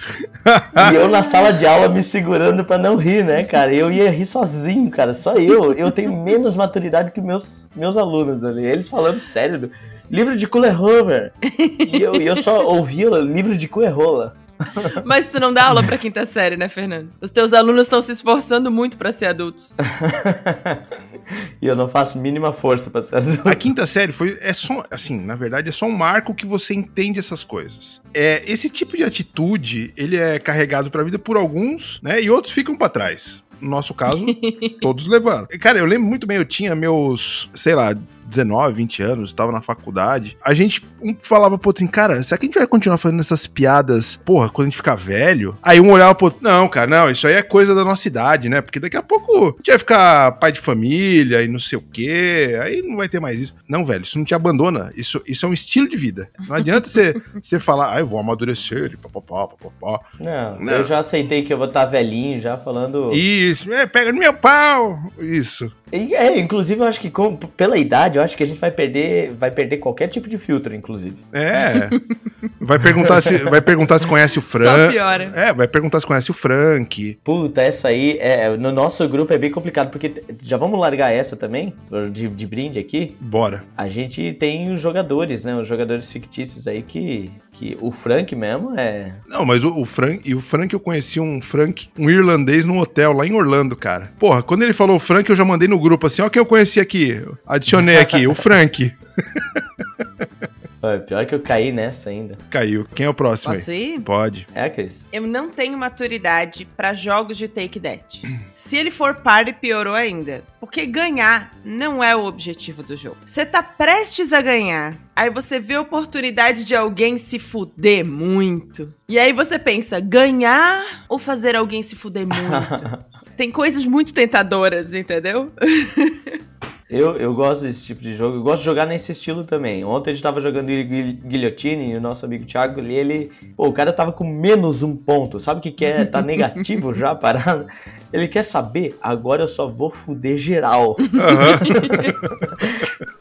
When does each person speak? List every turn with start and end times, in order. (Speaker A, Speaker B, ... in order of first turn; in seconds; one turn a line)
Speaker A: 0.5-0.9
Speaker B: 0.8-11.3
Speaker C: 11.5-12.5
Speaker B: 11.9-15.0
Speaker C: 15.0-19.8
Speaker B: 19.9-23.7
Speaker A: 23.5-60.1
Speaker C: 34.3-34.7
Speaker B: 60.2-63.2
Speaker A: 60.6-60.9
Speaker A: 63.1-65.7
Speaker B: 65.9-71.2
Speaker A: 71.3-72.0
Speaker A: 72.6-77.2
Speaker B: 72.9-73.8
Speaker C: 74.5-75.3
Speaker B: 77.2-83.2
Speaker A: 83.2-83.7
Speaker B: 83.8-89.2
Speaker A: 89.3-99.6
Speaker B: 100.8-102.4
Speaker A: 102.5-104.5
Speaker C: 103.5-104.1
Speaker B: 104.5-105.0
Speaker C: 105.1-126.4
Speaker B: 122.3-123.0
Speaker B: 126.9-141.9
Speaker A: 141.2-142.5
Speaker C: 141.3-142.0
Speaker B: 142.6-142.9